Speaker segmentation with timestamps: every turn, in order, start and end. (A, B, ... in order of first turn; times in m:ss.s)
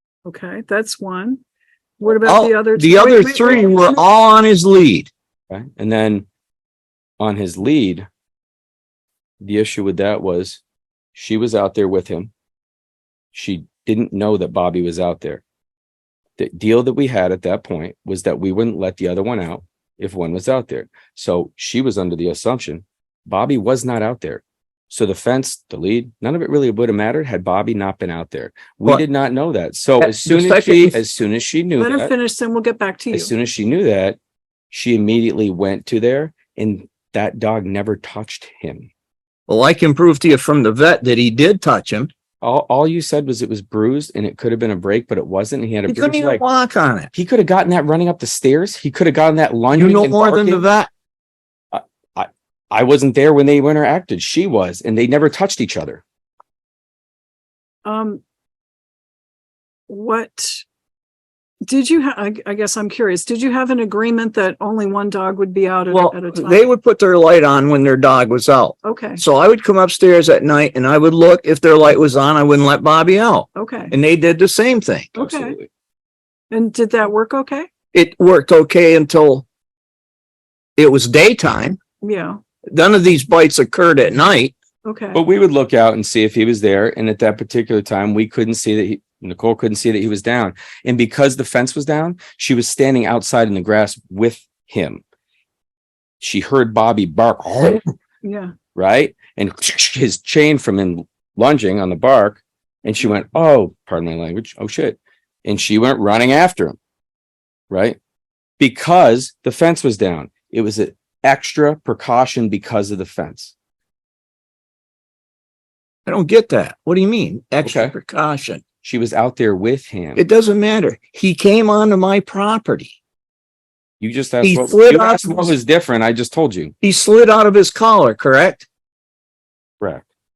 0:00.2-0:01.4 A
0:02.0-0:04.0 A
0:02.2-0:05.1 B
0:05.5-0:06.2 C
0:07.2-0:08.0 C
0:09.4-0:10.6 C
0:11.1-0:12.3 C
0:13.3-0:15.4 C
0:16.4-0:32.1 C
0:30.0-0:31.0 B
0:31.8-0:33.3 A
0:33.1-0:34.2 C
0:34.7-0:38.9 C
0:39.5-0:42.1 B
0:42.4-0:46.4 C
0:45.9-0:47.1 B
0:47.1-0:50.6 C
0:49.7-0:50.9 B
0:51.7-0:56.0 C
0:57.8-0:58.2 A
0:59.9-1:00.6 A
1:01.6-1:06.7 A
1:05.9-1:15.2 B
1:08.8-1:09.2 A
1:13.6-1:13.9 A
1:15.1-1:15.6 A
1:15.2-1:15.7 C
1:16.5-1:17.7 A
1:17.9-1:19.4 B
1:20.8-1:21.8 B
1:22.0-1:22.4 A
1:22.7-1:24.5 B
1:24.8-1:25.2 A
1:25.1-1:35.0 C
1:36.2-1:37.9 C
1:38.2-1:38.5 A
1:38.7-1:46.8 C
1:47.7-1:48.0 C
1:48.6-1:53.5 C
1:56.0-1:58.6 B
1:57.6-1:57.9 C
1:58.8-2:00.2 C
2:00.2-2:03.0 B
2:04.0-2:06.7 C
2:04.4-2:05.5 B
2:06.8-2:08.7 B